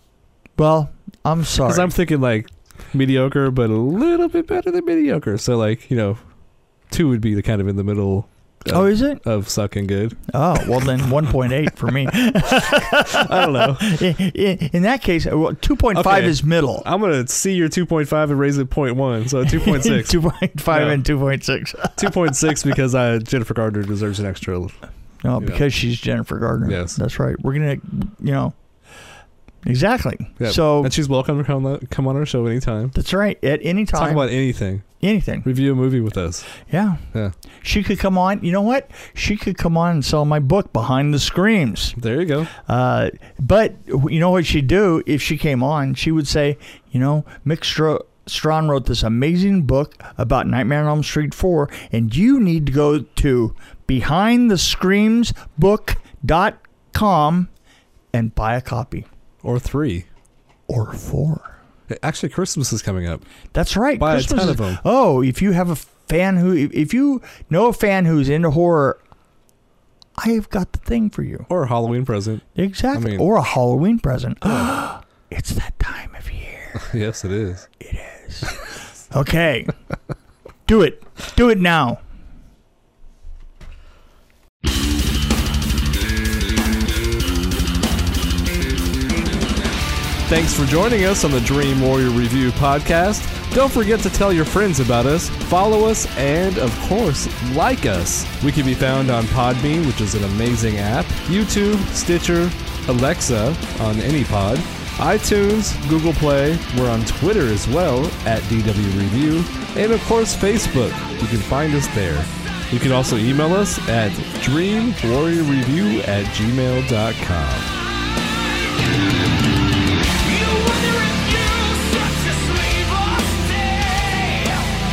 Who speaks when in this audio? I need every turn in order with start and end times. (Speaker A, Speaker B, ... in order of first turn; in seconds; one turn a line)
Speaker A: 0.6-1.9
Speaker B: 1.6-6.2
Speaker B: 6.9-10.2
Speaker A: 8.7-9.2
Speaker A: 10.3-16.9
Speaker B: 12.6-14.0
Speaker B: 15.9-20.2
Speaker A: 19.4-22.5
Speaker B: 20.7-21.0
Speaker B: 22.0-24.7
Speaker A: 25.2-28.6
Speaker B: 26.6-27.0
Speaker A: 29.6-30.9
Speaker B: 30.4-33.0
Speaker A: 32.9-34.3
Speaker B: 34.0-34.9
Speaker A: 35.0-35.5
Speaker B: 35.5-36.5
Speaker A: 36.7-37.0
Speaker A: 37.6-42.0
Speaker B: 42.0-42.5
Speaker A: 42.7-57.5
Speaker A: 58.1-59.1
Speaker B: 59.4-60.1
Speaker A: 60.7-61.5
Speaker B: 61.9-63.2
Speaker A: 63.5-69.0
Speaker B: 64.0-64.8
Speaker A: 70.2-71.5
Speaker B: 71.5-73.3
Speaker A: 72.5-76.9
Speaker B: 76.8-77.7
Speaker A: 77.8-78.6
Speaker A: 79.1-79.7
Speaker A: 80.7-82.0
Speaker B: 90.3-117.8
Speaker B: 120.2-124.7